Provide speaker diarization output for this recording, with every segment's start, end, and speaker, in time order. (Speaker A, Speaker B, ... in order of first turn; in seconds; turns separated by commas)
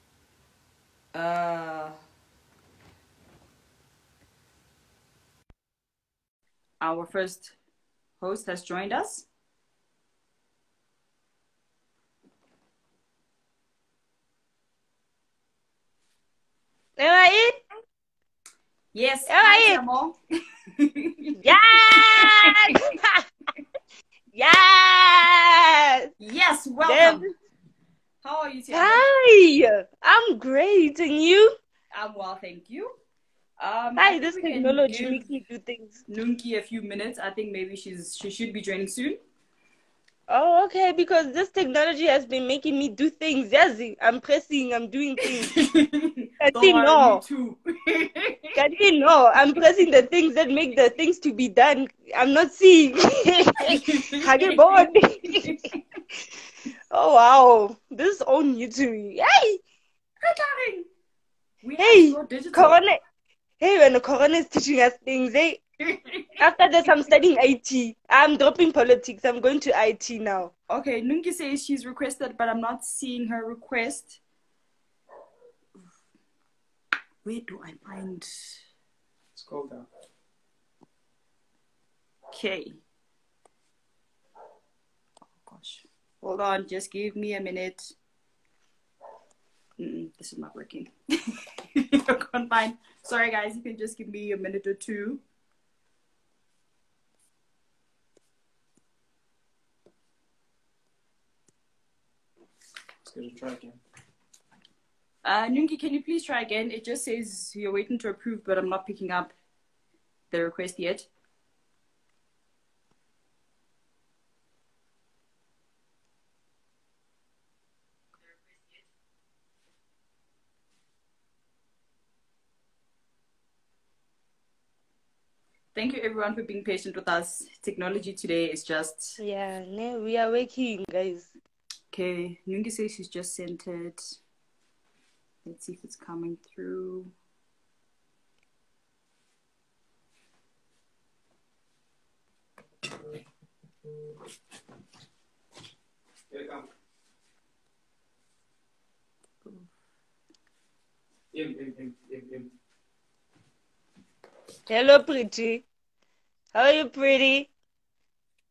Speaker A: 1.1-1.9, Speaker A: 6.8-7.5, Speaker A: 8.2-9.2, Speaker B: 17.0-17.6, Speaker A: 18.9-20.2, Speaker B: 19.3-19.8, Speaker A: 20.7-22.8, Speaker B: 21.4-23.2, Speaker B: 24.3-26.1, Speaker A: 26.2-27.2, Speaker B: 26.8-27.3, Speaker A: 28.2-29.0, Speaker B: 28.7-31.6, Speaker A: 31.9-32.9, Speaker A: 33.6-35.3, Speaker B: 34.0-36.0, Speaker A: 36.1-39.2, Speaker B: 40.3-45.5, Speaker A: 45.2-48.6, Speaker B: 46.4-47.2, Speaker B: 48.5-55.6, Speaker A: 53.7-55.7, Speaker B: 56.9-59.6, Speaker A: 60.2-60.9, Speaker A: 61.6-62.8, Speaker B: 61.8-63.0, Speaker B: 63.6-65.6, Speaker A: 65.8-66.4, Speaker B: 66.4-70.5, Speaker A: 70.7-74.2, Speaker A: 77.2-78.6, Speaker C: 79.3-79.8, Speaker A: 82.3-82.8, Speaker A: 85.4-87.9, Speaker A: 89.8-95.2, Speaker C: 103.0-103.8, Speaker A: 105.2-109.3, Speaker A: 110.3-111.1, Speaker A: 125.7-129.2, Speaker B: 129.2-131.3, Speaker A: 131.9-134.1, Speaker A: 135.4-137.1, Speaker C: 146.3-146.6, Speaker C: 151.3-152.5, Speaker B: 154.7-155.6, Speaker B: 156.5-157.5